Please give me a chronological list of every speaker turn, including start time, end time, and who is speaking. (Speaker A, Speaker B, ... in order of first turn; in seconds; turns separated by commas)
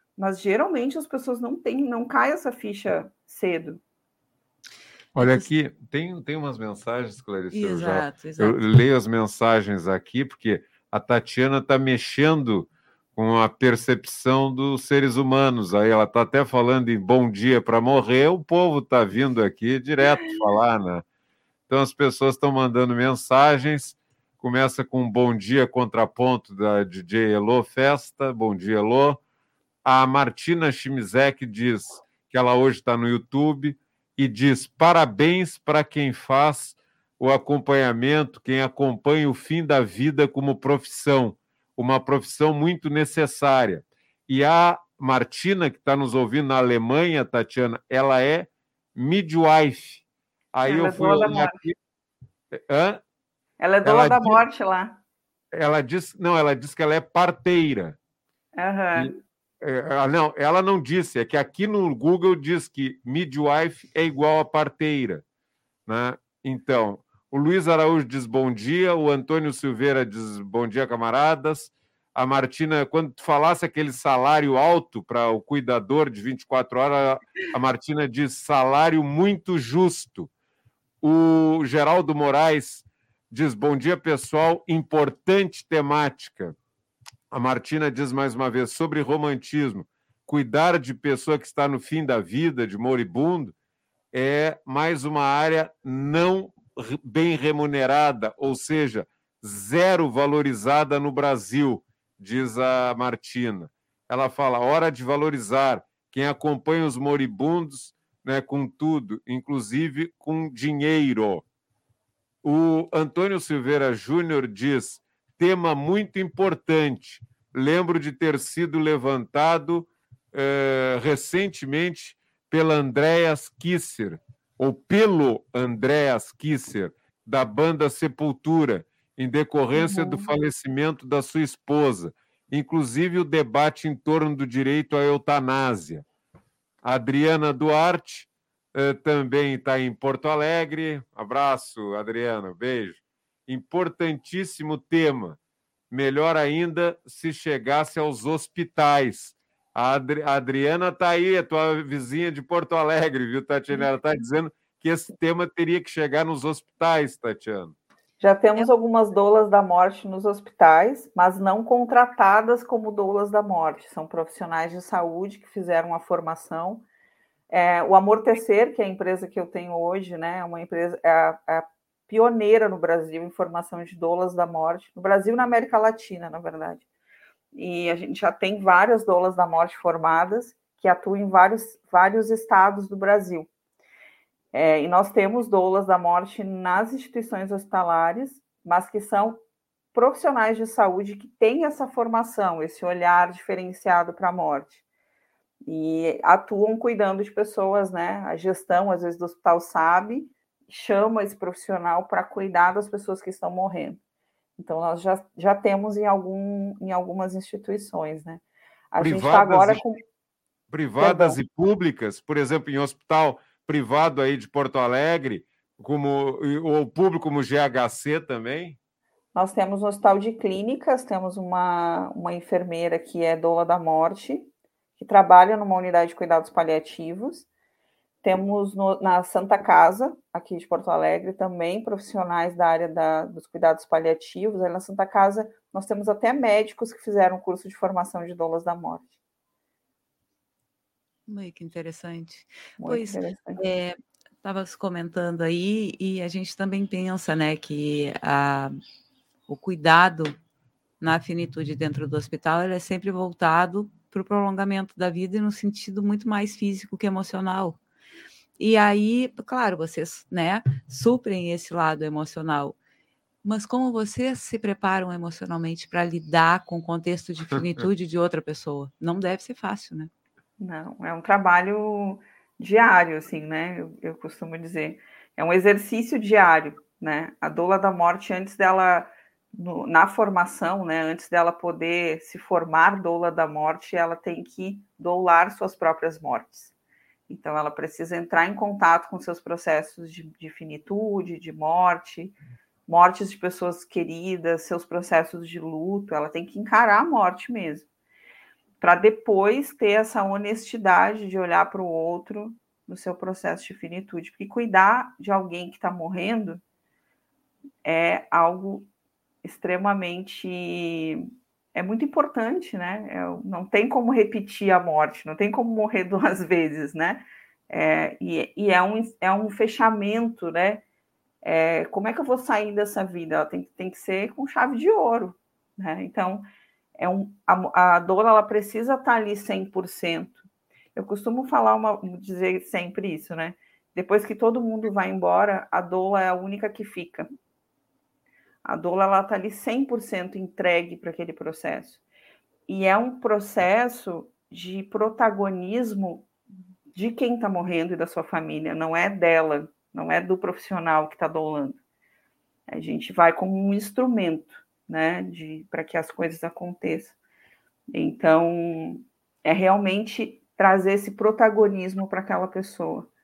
Speaker A: 0.2-3.8, Speaker B: 5.1-5.5, Speaker C: 5.2-21.0, Speaker B: 7.5-8.6, Speaker C: 21.7-29.2, Speaker C: 29.8-51.7, Speaker A: 50.6-51.5, Speaker C: 52.5-53.0, Speaker A: 53.6-55.0, Speaker C: 53.8-54.4, Speaker C: 55.5-58.0, Speaker A: 58.6-59.2, Speaker C: 58.9-65.2, Speaker C: 65.9-80.3, Speaker C: 81.0-86.5, Speaker C: 87.3-93.5, Speaker C: 94.1-111.4, Speaker C: 112.4-136.0, Speaker A: 129.8-130.3, Speaker C: 136.8-145.4, Speaker C: 145.9-157.7, Speaker A: 158.2-166.8, Speaker A: 167.5-176.8, Speaker A: 177.5-183.5, Speaker A: 184.5-189.4, Speaker A: 189.9-194.8, Speaker A: 195.6-204.0, Speaker A: 204.6-210.0, Speaker C: 209.0-209.8, Speaker C: 210.7-218.8, Speaker A: 211.0-211.4, Speaker A: 219.3-227.5, Speaker A: 228.2-239.1, Speaker B: 241.3-248.8, Speaker A: 242.8-243.6, Speaker B: 249.5-250.3, Speaker B: 251.0-257.8, Speaker B: 258.6-262.8, Speaker B: 263.4-270.1, Speaker A: 270.6-286.7, Speaker A: 287.3-292.4, Speaker A: 292.9-297.9, Speaker A: 298.8-306.6, Speaker A: 307.8-308.9, Speaker A: 309.4-320.8, Speaker A: 321.4-326.4, Speaker A: 327.0-330.4, Speaker A: 330.9-337.3, Speaker A: 338.6-342.0, Speaker A: 342.7-346.3, Speaker A: 346.9-351.8, Speaker A: 352.7-357.1, Speaker A: 357.9-363.1